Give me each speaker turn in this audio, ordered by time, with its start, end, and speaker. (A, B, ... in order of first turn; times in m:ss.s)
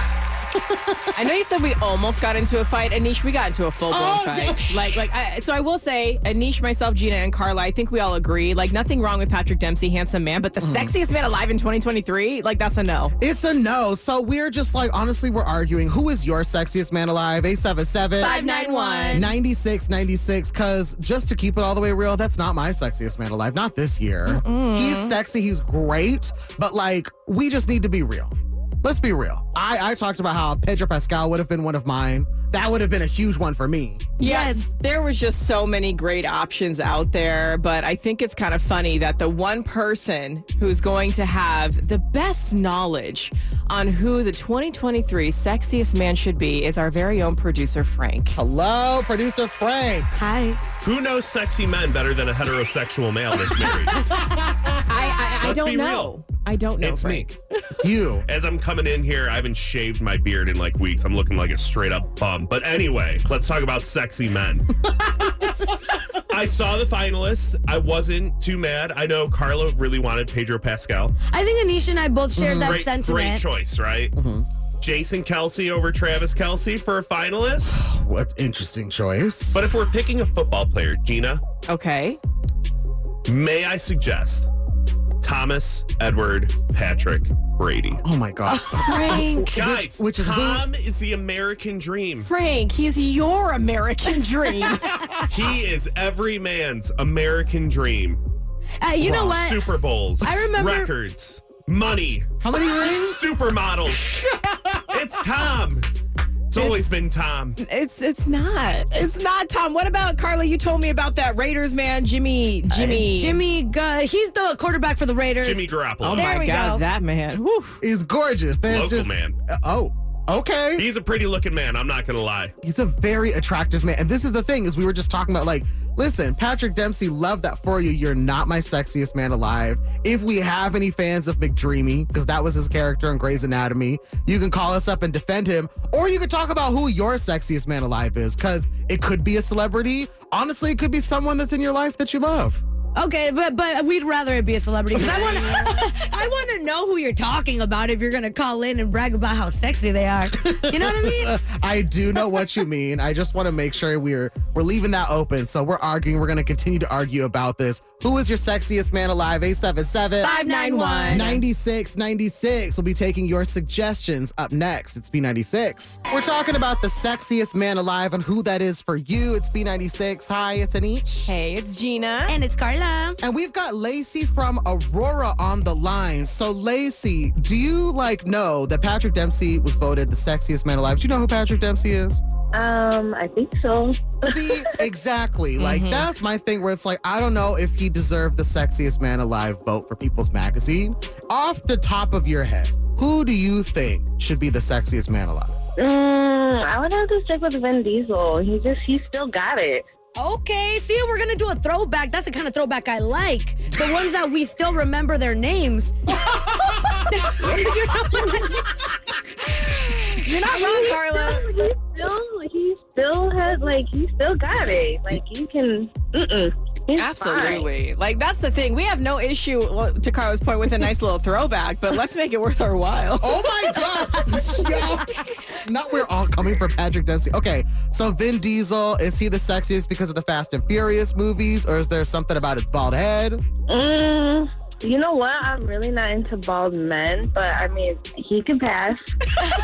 0:00.5-0:01.0 A
0:01.2-0:13.1 B
0:03.9-0:04.8 A
0:10.6-0:10.9 A
0:13.2-0:18.3 A
0:18.2-0:19.3 B
0:18.4-0:19.2 C
0:19.1-0:34.0 A
0:24.3-0:25.2 B
0:34.2-0:48.4 B
0:34.2-0:34.7 C
0:48.4-0:50.2 A
0:50.2-0:50.6 C
0:50.8-0:53.9 D
0:54.1-0:54.8 A
0:54.9-0:57.7 B
0:55.1-0:56.2 D
0:56.8-0:57.3 D
0:57.8-0:58.2 A
0:58.2-1:04.8 D
1:06.2-1:11.1 D
1:11.3-1:13.4 C
1:12.3-1:12.8 A
1:12.6-1:14.1 D
1:14.2-1:14.4 A
1:14.8-1:17.8 D
1:17.7-1:19.6 A
1:19.5-1:21.4 D
1:21.7-1:22.2 B
1:23.3-1:24.5 D
1:25.2-1:28.0 D
1:28.0-1:30.6 A
1:28.7-1:29.6 B
1:29.5-1:32.3 D
1:32.2-1:35.0 B
1:35.3-1:38.2 D
1:38.8-1:39.7 C
1:39.0-1:44.1 D
1:40.2-1:40.9 C
1:42.4-1:43.2 A
1:44.1-1:44.6 A
1:44.9-1:45.9 D
1:46.5-1:47.6 D
1:46.5-1:47.0 B
1:47.6-1:53.4 B
1:52.7-1:53.1 A
1:52.8-1:56.8 C
1:55.4-1:56.4 D
1:56.0-1:57.8 B
1:57.8-2:00.8 A
1:58.7-1:59.3 D
2:00.8-2:02.5 D
2:02.6-2:22.6 A
2:23.0-2:31.3 C
2:24.9-2:25.6 A
2:30.3-2:40.3 A
2:40.2-2:41.3 B
2:40.2-2:41.4 C
2:41.1-2:51.3 A
2:51.3-2:52.3 B
2:52.3-2:53.2 C
2:53.2-3:02.2 A
3:02.5-3:04.2 E
3:04.2-3:15.6 A
3:05.6-3:06.1 B
3:15.8-3:19.8 E
3:20.2-3:26.0 C
3:26.8-3:28.7 C
3:27.4-3:28.2 E
3:29.6-3:31.5 B
3:30.5-3:37.7 E
3:37.0-3:43.5 B
3:43.2-3:53.4 A
3:43.8-3:44.4 C
3:53.7-3:59.0 E